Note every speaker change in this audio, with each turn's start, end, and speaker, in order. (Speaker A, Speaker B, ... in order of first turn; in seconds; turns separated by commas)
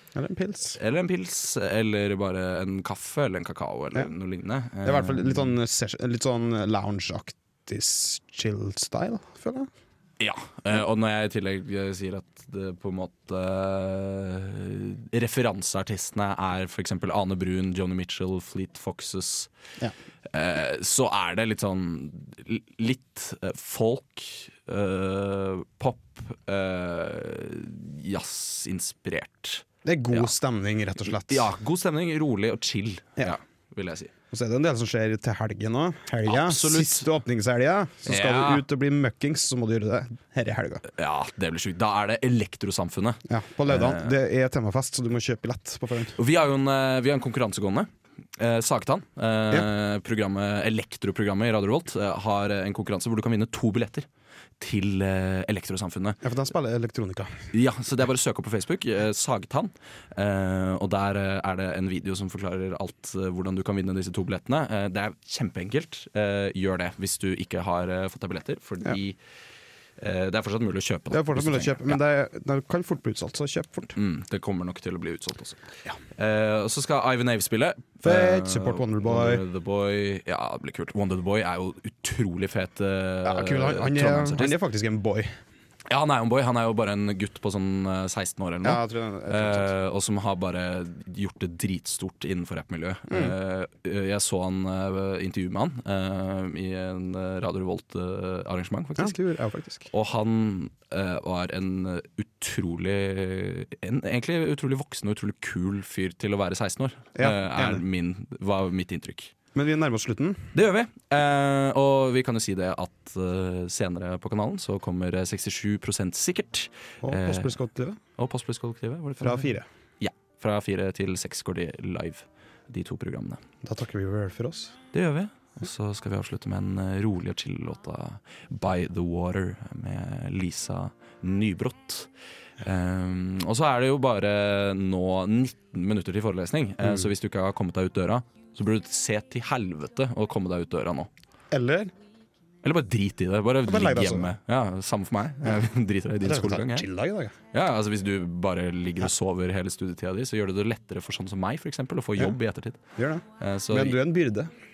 Speaker A: 0.1-0.8, Speaker B: 0.8-5.5, Speaker A: 4.8-9.7, Speaker B: 10.2-19.5, Speaker B: 20.3-30.3, Speaker A: 29.9-31.5, Speaker B: 31.0-34.1, Speaker A: 34.3-40.8, Speaker B: 36.3-37.1, Speaker B: 38.1-38.6, Speaker B: 40.9-44.1, Speaker A: 43.3-46.2, Speaker B: 46.2-54.1, Speaker B: 54.6-56.2, Speaker A: 56.2-57.3, Speaker B: 57.5-69.2, Speaker B: 70.0-72.0, Speaker A: 71.1-73.9, Speaker B: 73.9-75.6, Speaker B: 76.2-84.5, Speaker A: 78.0-79.4, Speaker A: 83.2-85.4, Speaker B: 85.9-99.2, Speaker A: 88.6-89.7, Speaker A: 93.1-93.3, Speaker A: 99.0-99.9, Speaker B: 99.9-109.3, Speaker A: 107.2-107.8, Speaker A: 109.5-110.5, Speaker B: 110.5-117.6, Speaker A: 117.0-118.0, Speaker B: 118.2-123.4, Speaker A: 119.2-119.7, Speaker A: 123.6-124.8, Speaker B: 124.9-132.1, Speaker B: 132.6-141.1, Speaker A: 141.5-141.9, Speaker B: 142.6-146.9, Speaker A: 143.7-144.3, Speaker A: 146.2-147.3, Speaker B: 147.5-152.8, Speaker A: 153.0-154.5, Speaker B: 153.4-154.0